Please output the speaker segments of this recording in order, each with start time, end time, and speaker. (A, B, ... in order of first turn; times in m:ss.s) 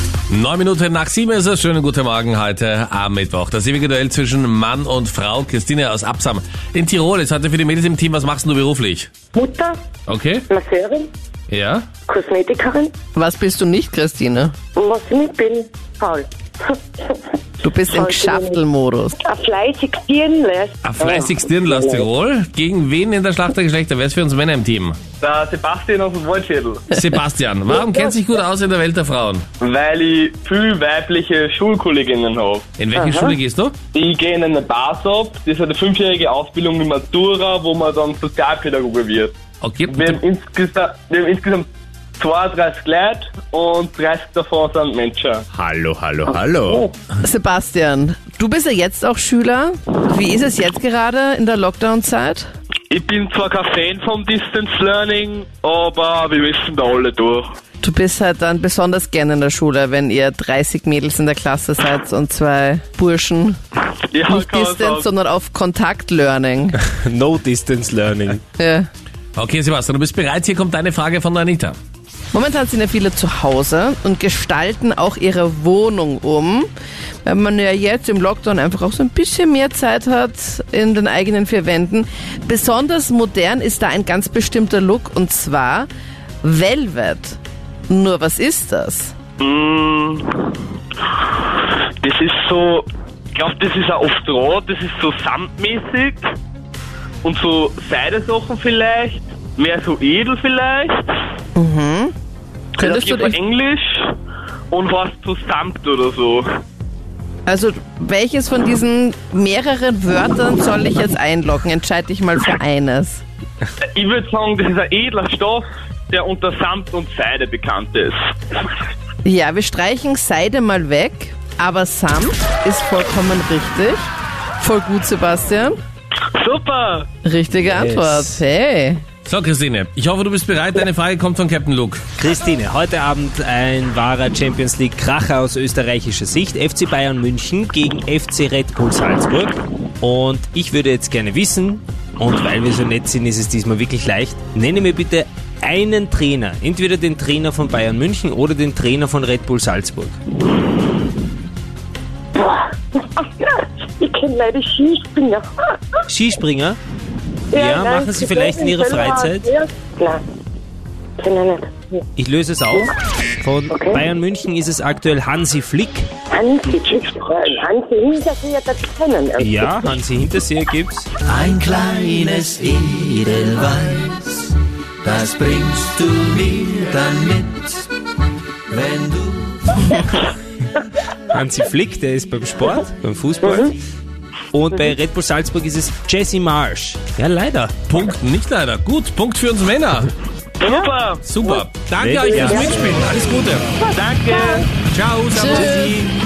0:00.3-0:09.1 A
0:09.3-0:09.8 B
0:10.1-0:10.5 A
0:10.5-0:11.1 B
0:11.5-0:11.9 A
0:12.1-0:12.9 B
0:13.2-0:14.6 C
0:14.8-0:17.3 B
0:17.6-0:19.2 C
0:17.9-0:18.6 B
0:19.2-0:22.1 B
0:20.8-0:25.0 A
0:25.2-0:26.9 D
0:26.9-0:29.5 A
0:29.6-0:32.6 D
0:32.8-0:33.8 A
0:32.9-0:33.4 B
0:33.9-0:39.4 D
0:39.6-0:40.2 A
0:39.9-0:41.7 D
0:42.2-0:45.4 D
0:45.5-0:46.9 E
0:47.2-0:52.5 C
0:52.9-0:57.5 D
0:57.8-1:03.6 C
1:04.1-1:05.0 D
1:04.3-1:06.8 C
1:06.8-1:08.4 E
1:08.6-1:08.9 C
1:09.4-1:11.8 A
1:12.3-1:16.7 C
1:17.2-1:25.9 C
1:26.4-1:29.1 C
1:29.4-1:30.5 D
1:31.6-1:36.3 D
1:37.2-1:41.0 D
1:41.6-1:42.1 C
1:42.8-1:43.4 C
1:42.8-1:44.1 D
1:44.7-1:46.5 D
1:47.5-1:53.2 C
1:53.9-1:58.2 D
1:59.2-2:05.8 C
2:06.4-2:07.1 D
2:07.2-2:09.0 C
2:07.7-2:08.3 E
2:09.2-2:12.0 A
2:12.2-2:30.2 E
2:32.4-2:36.0 B
2:36.1-2:36.8 E
2:37.5-2:40.2 B
2:37.5-2:39.5 E
2:41.2-2:42.0 B
2:42.2-2:46.1 E
2:43.7-2:44.1 B
2:46.3-2:49.8 B
2:49.4-2:51.1 E
2:51.2-2:54.5 F
2:55.0-2:57.8 F
2:58.7-2:59.9 F
3:01.3-3:03.7 E
3:03.4-3:03.7 B
3:04.5-3:07.7 E
3:07.9-3:10.1 A
3:10.6-3:11.2 D
3:10.6-3:10.9 B
3:11.2-3:13.7 A
3:12.0-3:13.0 E
3:12.3-3:12.8 B
3:13.9-3:14.7 D
3:14.3-3:14.7 B
3:14.8-3:16.1 A
3:15.4-3:16.0 C